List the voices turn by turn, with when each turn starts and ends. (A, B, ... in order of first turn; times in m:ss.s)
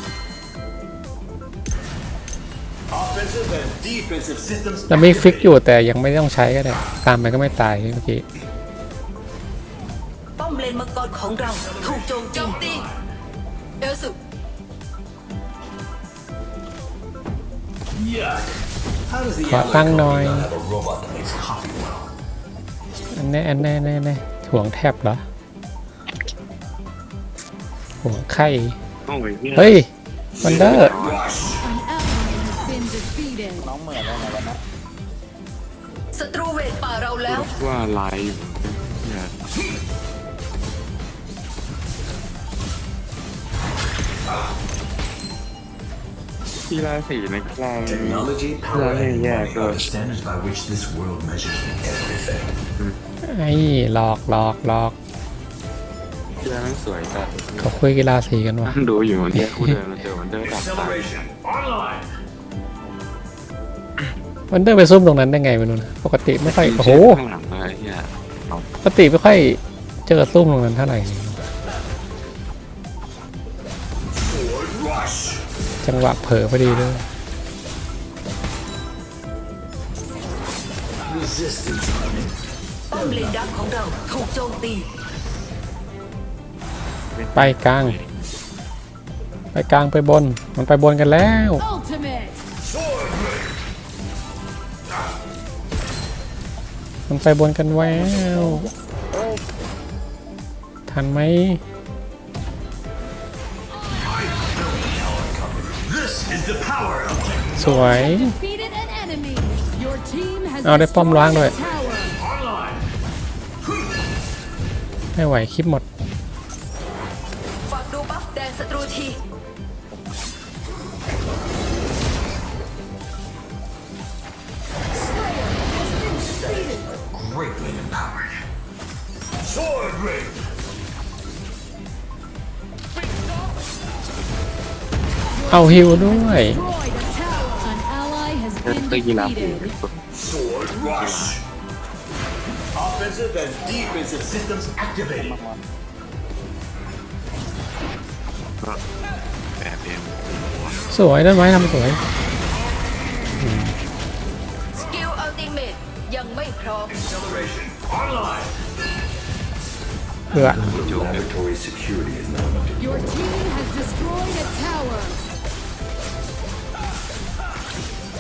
0:03.0-0:05.4 A
0:04.9-0:08.3 B
0:10.4-0:12.9 C
0:11.6-0:12.9 A
0:13.8-0:14.2 C
0:18.0-0:18.5 A
0:19.1-0:22.1 A
0:19.5-0:20.5 B
0:23.1-0:25.2 B
0:28.0-0:28.8 B
0:29.1-0:29.8 D
0:29.6-0:29.9 B
0:30.4-0:31.6 D
0:30.4-0:31.0 B
0:31.8-0:33.4 E
0:33.6-0:34.6 F
0:36.1-0:37.5 C
0:37.3-0:39.4 D
0:46.7-0:49.9 D
0:47.9-0:52.5 A
0:53.2-0:55.0 B
0:56.4-0:57.8 D
0:57.6-0:58.8 B
0:58.6-1:01.4 D
0:59.4-0:59.7 B
1:00.5-1:01.1 A
1:04.5-1:07.2 B
1:06.4-1:08.7 D
1:08.8-1:11.4 B
1:14.2-1:15.3 A
1:15.8-1:17.0 B
1:21.0-1:22.3 A
1:22.9-1:24.9 C
1:27.2-1:28.3 D
1:27.4-1:28.0 B
1:29.5-1:31.6 B
1:31.7-1:32.2 E
1:37.1-1:38.7 B
1:37.8-1:39.4 F
1:40.9-1:41.6 B
1:43.9-1:47.9 A
1:47.6-1:48.4 B
1:48.1-1:51.8 E
1:50.6-1:51.6 B
1:55.2-1:55.9 B
1:57.6-1:59.2 C
2:06.2-2:08.4 A
2:15.5-2:16.7 B
2:16.8-2:17.9 E
2:18.6-2:20.0 D
2:18.7-2:19.2 E
2:20.7-2:21.4 D
2:22.9-2:25.0 A
2:25.1-2:25.6 F
2:29.6-2:30.8 D
2:30.9-2:32.0 B
2:33.4-2:33.7 B
2:34.7-2:37.1 C
2:37.1-2:38.2 A
2:40.3-2:43.2 A
2:40.3-2:40.6 B
2:40.6-2:41.3 D
2:43.2-2:44.9 E